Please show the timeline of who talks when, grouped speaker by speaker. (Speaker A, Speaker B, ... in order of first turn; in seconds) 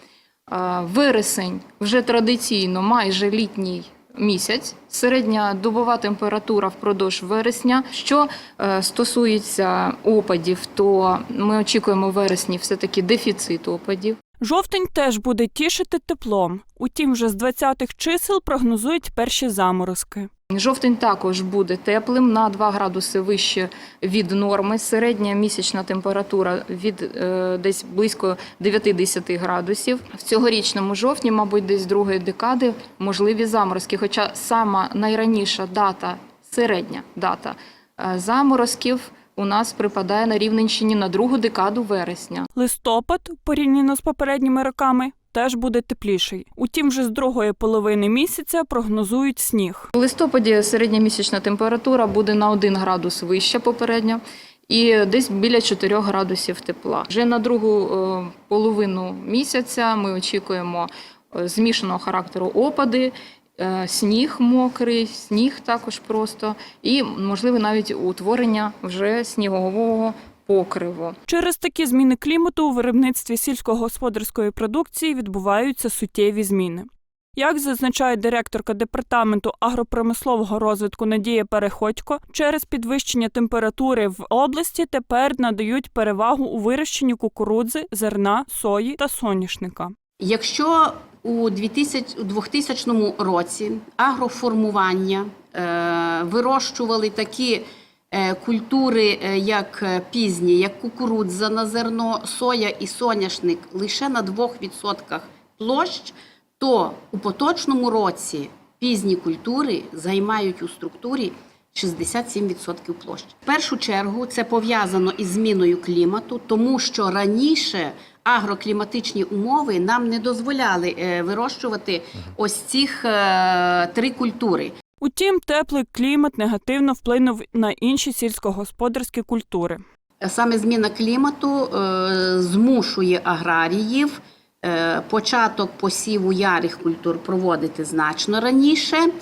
Speaker A: 0.5-14.2, 20.5-42.5, 49.9-71.2
Speaker B: 14.4-20.3, 42.5-49.9, 71.3-89.9, 125.0-129.8
Speaker C: 90.2-124.7, 130.2-139.1